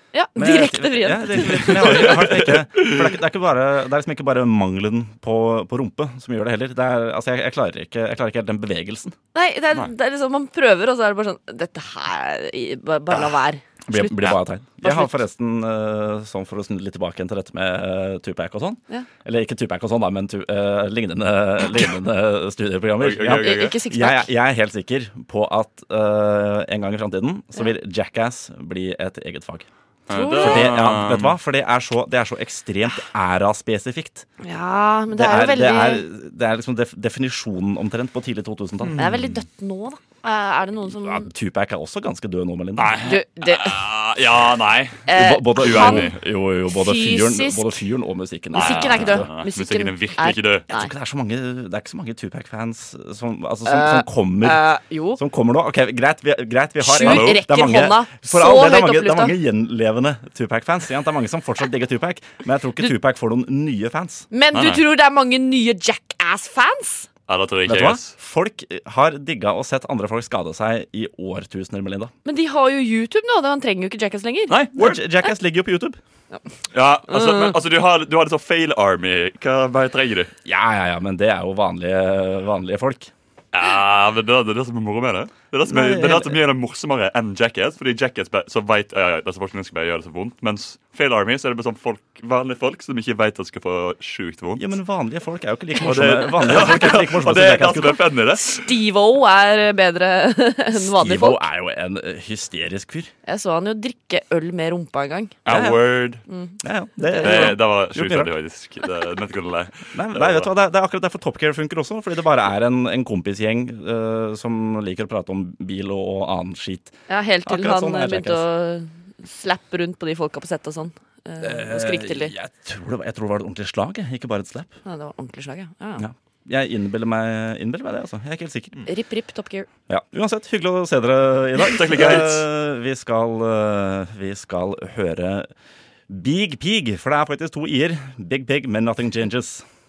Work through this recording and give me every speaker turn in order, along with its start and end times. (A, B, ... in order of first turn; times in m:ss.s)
0:00.1-0:02.2 A
0:00.4-0:09.2 B
0:09.3-0:15.2 A
0:13.9-0:29.7 B
0:23.0-0:23.8 C
0:23.4-0:24.3 A
0:30.1-0:31.4 C
0:30.1-0:30.8 A
0:30.4-0:34.3 B
0:34.4-0:36.0 A
0:35.1-0:39.1 B
0:38.8-0:39.4 C
0:39.0-0:41.3 A
0:41.0-0:43.0 B
0:42.8-0:46.2 C
0:43.0-0:43.8 A
0:45.1-0:46.1 A
0:45.2-0:49.3 B
0:46.7-0:47.8 A
0:48.5-0:50.9 A
0:48.6-0:50.7 C
0:50.7-0:54.6 B
0:53.7-0:55.2 A
0:55.2-1:04.3 B
0:56.8-0:59.3 A
0:57.0-0:57.4 C
1:04.3-1:07.1 A
1:04.5-1:04.8 C
1:07.3-1:08.1 C
1:07.7-1:12.1 B
1:12.2-1:14.5 A
1:14.5-1:15.0 C
1:14.8-1:16.0 B
1:16.7-1:20.3 C
1:17.1-1:17.5 A
1:20.4-1:23.1 B
1:23.5-1:34.6 C
1:25.7-1:26.4 B
1:34.6-1:38.0 B
1:35.8-1:38.7 C
1:38.5-1:41.4 A
1:41.0-1:43.1 B
1:43.2-1:45.4 A
1:45.4-1:46.2 C
1:45.5-1:45.8 B
1:46.3-1:46.6 A
1:46.6-1:48.3 B
1:47.1-1:47.5 A
1:47.2-1:50.5 C
1:49.9-1:58.4 B
1:57.1-2:02.3 A
2:01.4-2:04.7 B
2:04.8-2:06.0 A
2:06.0-2:08.9 B
2:08.9-2:09.7 A
2:09.9-2:15.5 B
2:11.6-2:12.5 C
2:16.1-2:19.6 B